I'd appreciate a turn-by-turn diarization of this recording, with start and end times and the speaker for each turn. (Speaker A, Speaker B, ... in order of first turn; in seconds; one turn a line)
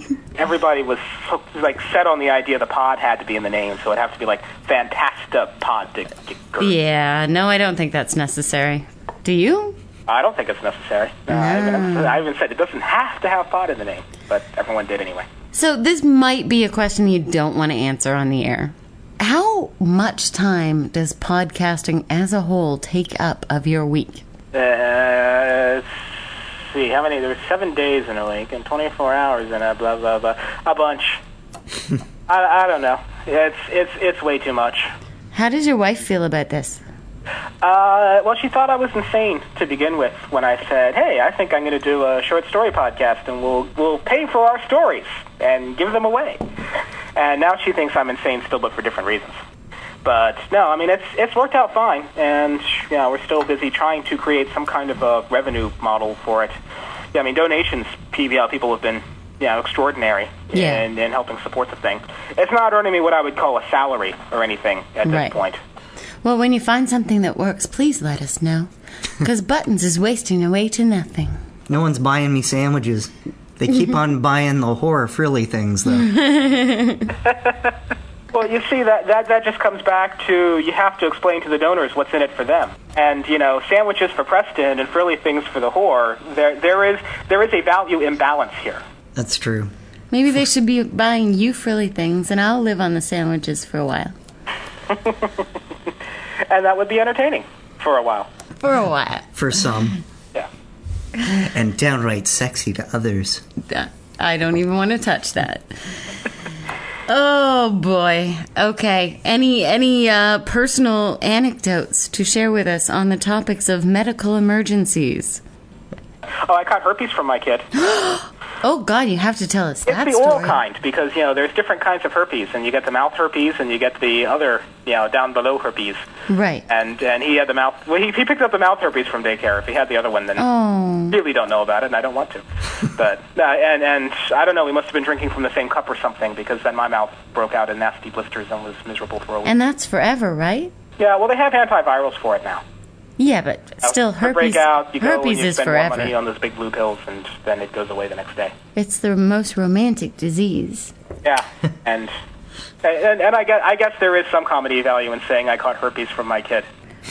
Speaker A: 0.4-6.8
Speaker B: 6.6-9.8
Speaker A: 10.1-15.3
Speaker B: 11.3-12.2
Speaker B: 15.5-24.2
Speaker A: 24.5-31.2
Speaker A: 32.3-34.9
Speaker B: 35.3-36.8
Speaker A: 37.6-46.4
Speaker A: 47.1-49.4
Speaker A: 50.0-56.6
Speaker A: 57.1-65.6
Speaker B: 60.5-60.9
Speaker B: 65.0-65.4
Speaker B: 66.2-71.4
Speaker C: 71.7-76.1
Speaker B: 76.0-77.2
Speaker A: 77.3-77.7
Speaker A: 78.3-88.8
Speaker C: 89.2-89.7
Speaker B: 90.1-94.2
Speaker A: 94.9-95.3
Speaker A: 96.5-98.3
Speaker B: 98.6-99.3
Speaker C: 99.3-100.0
Speaker C: 101.3-103.4
Speaker B: 103.6-106.1
Speaker B: 107.1-115.4
Speaker A: 116.4-117.9
Speaker B: 117.8-120.6
Speaker A: 119.9-126.0
Speaker B: 126.3-126.7
Speaker A: 126.7-130.4
Speaker B: 130.4-131.2
Speaker A: 131.1-139.5
Speaker B: 139.4-140.7
Speaker A: 141.0-142.6
Speaker B: 143.2-146.2
Speaker A: 143.8-148.5
Speaker B: 148.8-150.9
Speaker A: 151.2-152.1
Speaker A: 152.8-156.7